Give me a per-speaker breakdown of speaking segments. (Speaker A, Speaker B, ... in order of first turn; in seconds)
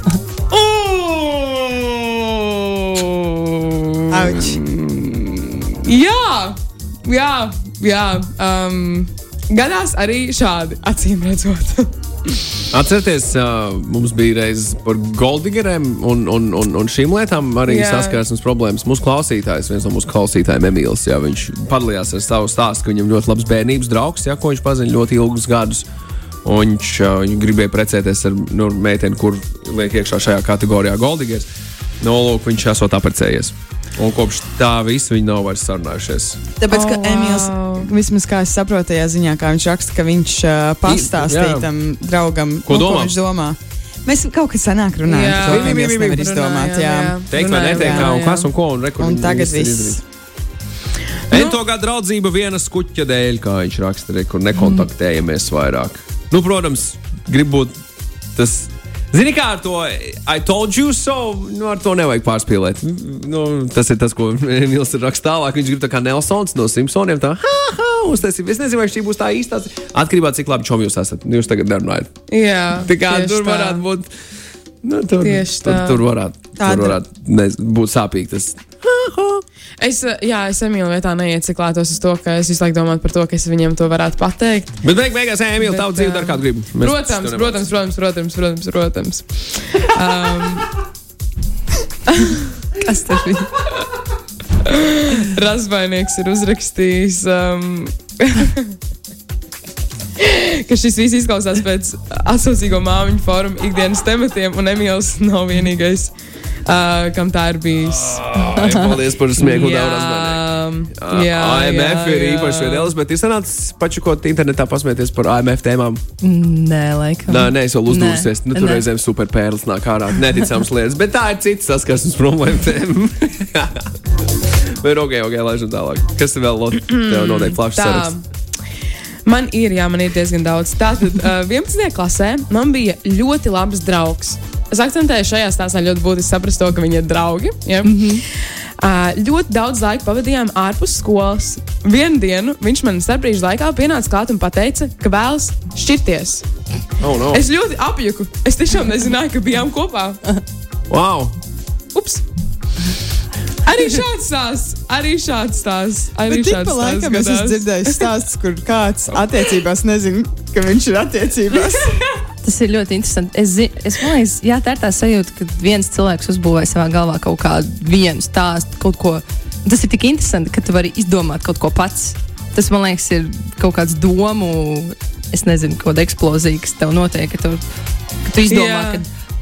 Speaker A: 0.5-12.4, 17.7-18.2, 36.7-37.9, 45.0-48.5, 51.3-51.6, 72.3-73.8, 75.2-76.0, 79.8-84.8, 85.6-90.7, 94.6-98.8, 100.2-108.2, 109.4-112.9, 126.9-128.2, 129.2-146.5, 147.3-150.2, 151.9-152.2, 153.6-158.1, 178.5-179.0
Speaker B: 4.1-4.6, 36.6-48.1, 49.0-50.0, 76.6-77.0, 156.3-162.0
Speaker C: 12.7-25.8, 26.4-31.5, 32.0-36.4, 40.9-41.7, 42.7-43.1, 45.4-46.3, 47.3-50.0, 51.3-57.7, 58.4-72.1, 72.8-74.1, 74.8-79.4, 84.8-87.6, 107.8-116.0, 117.3-123.9, 124.8-128.1, 147.0-147.4, 150.9-151.3
Speaker D: 54.6-54.9, 92.8-93.5, 108.5-109.0, 116.2-118.8, 137.8-138.2, 162.4-177.6, 178.2-179.1